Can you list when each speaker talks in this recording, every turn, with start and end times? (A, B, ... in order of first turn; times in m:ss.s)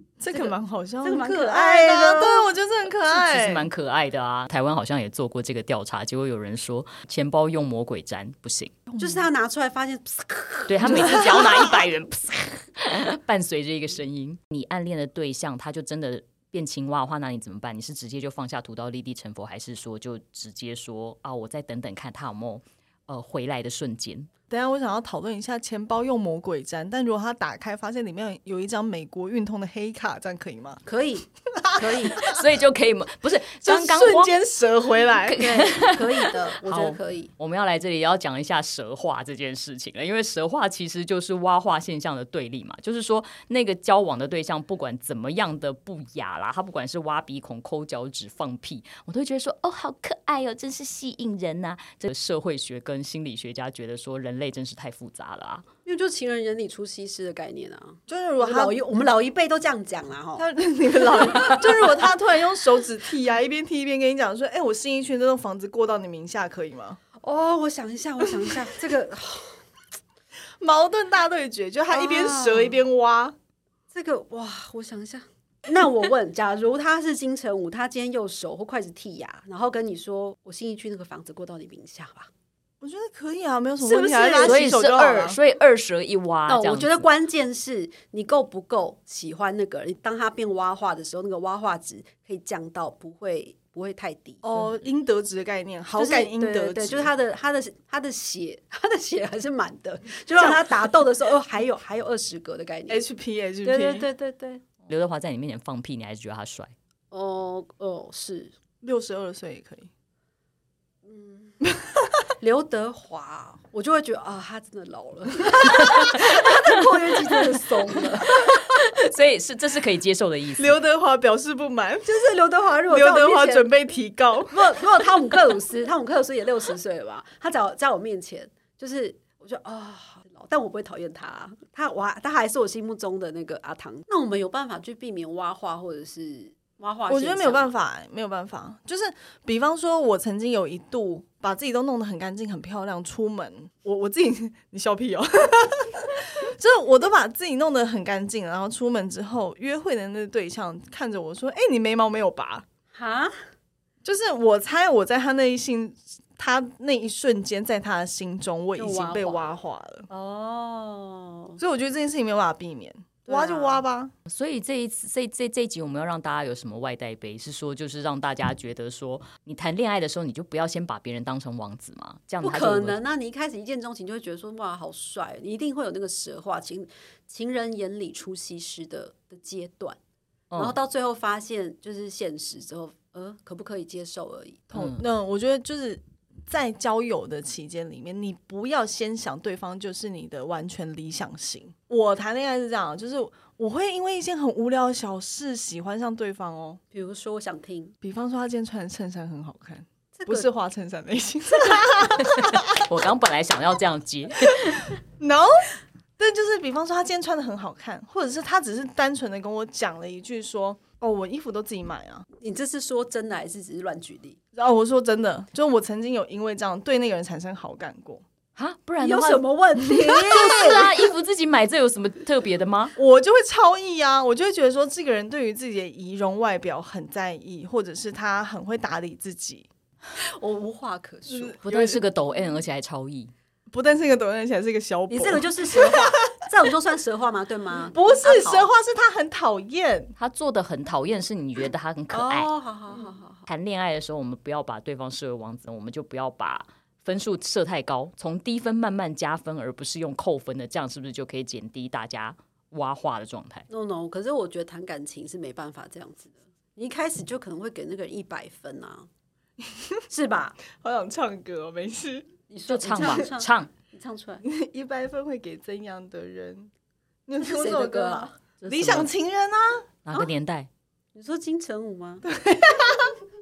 0:00.2-0:03.7 A
0:00.3-0:02.6 B
0:03.1-0:08.7 C
0:08.9-0:09.2 A
0:09.0-0:11.7 B
0:10.7-0:24.3 C
0:10.9-0:11.4 A
0:24.5-0:30.8 A
0:30.8-0:32.2 B
0:31.5-0:32.4 A
0:32.2-0:34.3 C
0:33.6-0:35.5 A
0:35.1-0:55.6 C
0:35.4-0:37.3 B
0:55.8-1:00.5 B
0:58.1-0:58.8 A
1:00.4-1:07.0 A
1:01.3-1:01.6 B
1:07.2-1:09.6 B
1:10.6-1:13.3 A
1:11.9-1:12.8 B
1:13.9-1:22.3 B
1:22.8-1:25.4 A
1:23.8-1:24.7 B
1:24.4-1:27.1 C
1:26.5-1:34.4 B
1:34.4-1:37.1 A
1:35.9-1:43.0 B
1:40.4-1:40.9 A
1:42.9-1:44.1 A
1:43.6-1:44.6 B
1:44.8-1:46.7 C
1:47.1-1:48.5 B
1:48.8-1:49.9 A
1:51.0-1:51.7 B
1:52.4-1:58.4 B
1:58.3-2:00.8 C
2:00.6-2:02.3 A
2:02.0-2:03.7 B
2:02.9-2:04.8 A
2:04.5-2:17.7 B
2:17.1-2:32.6 A
2:32.9-2:33.4 B
2:34.0-2:40.1 A
2:38.8-2:39.6 B
2:40.1-2:41.6 B
2:41.6-2:44.1 A
2:43.2-2:43.8 B
2:44.3-2:53.0 C
2:52.4-3:00.0 B
3:00.5-3:00.8 C
3:00.5-3:04.6 B
3:04.7-3:16.8 A
3:04.7-3:05.0 C
3:16.9-3:17.9 B
3:18.0-3:22.8 A
3:20.1-3:20.5 B
3:22.2-3:24.9 C
3:24.5-3:32.2 A
3:32.4-3:34.4 B
3:34.5-3:38.2 A
3:38.6-3:39.4 C
3:39.0-3:40.9 B
3:40.2-3:42.9 C
3:43.0-3:49.7 A
3:50.2-3:51.6 B
3:51.3-3:52.0 A
3:51.6-3:53.3 C
3:53.7-3:56.2 A
3:55.1-3:58.7 B
3:57.9-4:00.1 A
4:00.2-4:02.5 C
4:02.1-4:03.5 B
4:03.5-4:13.6 C
4:13.7-4:19.1 B
4:19.7-4:20.0 A
4:20.1-4:20.6 B
4:20.7-4:22.3 A
4:22.5-4:24.4 B
4:22.7-4:23.7 C
4:24.4-4:26.7 A
4:27.3-4:29.9 A
4:27.4-4:28.3 B
4:28.6-4:29.1 C
4:30.0-4:30.7 C
4:31.1-4:32.2 B
4:32.2-4:33.2 A